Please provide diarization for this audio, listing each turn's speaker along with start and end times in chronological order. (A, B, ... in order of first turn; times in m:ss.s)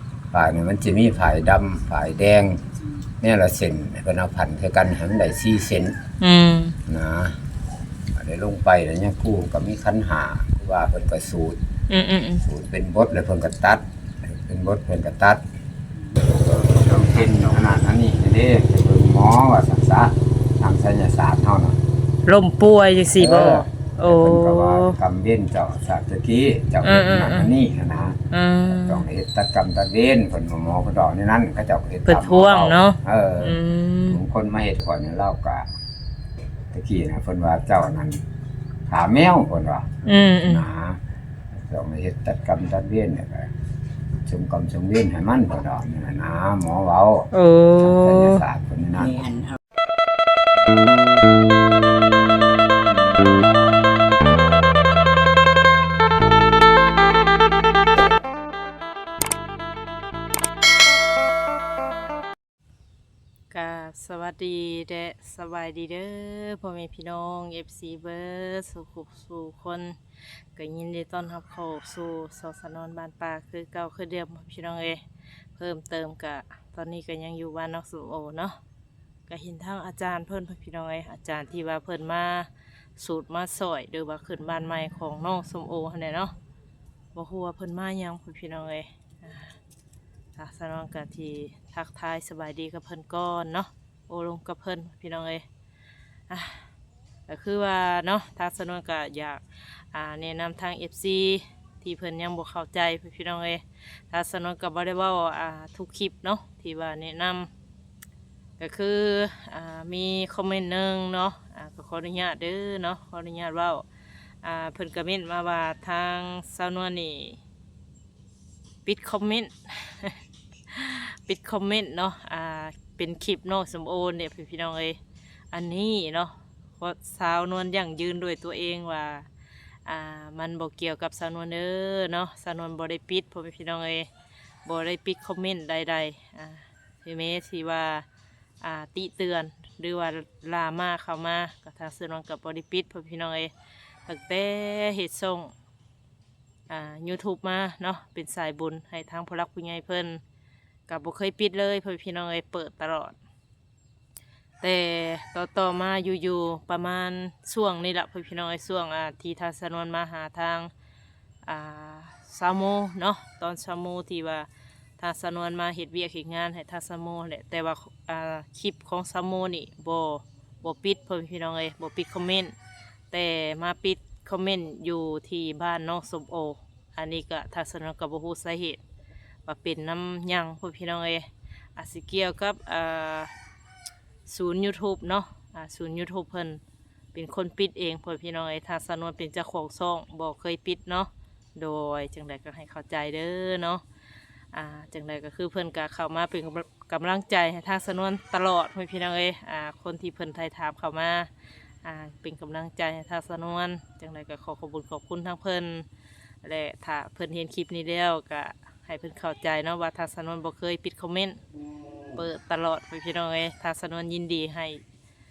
0:00.3-0:02.6 A
0:03.2-0:05.9 A
0:06.2-0:06.8 B
0:06.9-0:07.4 A
0:08.2-0:11.6 A
0:11.9-0:12.4 B
0:12.4-0:15.4 A
0:16.0-0:17.6 C
0:16.5-0:21.8 A
0:22.3-0:25.0 B
0:23.1-0:35.7 A
0:26.8-0:27.5 B
0:28.3-0:29.1 B
0:32.1-0:34.2 B
0:36.7-0:38.2 A
0:38.9-0:41.0 A
0:40.0-0:40.7 B
0:41.5-0:43.5 A
0:44.2-0:49.3 A
0:47.3-0:48.4 B
0:49.0-0:49.6 C
1:03.5-1:10.0 B
1:10.6-1:15.0 B
1:15.6-1:18.6 B
1:19.3-1:26.3 B
1:27.2-1:29.6 B
1:30.4-1:35.4 B
1:36.3-1:36.7 B
1:37.3-1:47.5 B
1:48.6-1:53.8 B
1:54.4-1:57.4 B
1:58.8-2:05.0 B
2:05.5-2:09.3 B
2:09.9-2:14.1 B
2:14.6-2:18.0 B
2:18.6-2:23.5 B
2:24.1-2:25.5 B
2:26.7-2:30.2 B
2:30.9-2:33.2 B
2:34.6-2:40.7 B
2:41.4-2:44.5 B
2:45.0-2:52.5 B
2:53.1-2:58.8 B
2:59.5-3:03.3 B
3:04.3-3:06.6 B
3:07.1-3:13.8 B
3:14.5-3:21.3 B
3:21.8-3:25.9 B
3:26.4-3:31.4 B
3:32.1-3:34.8 B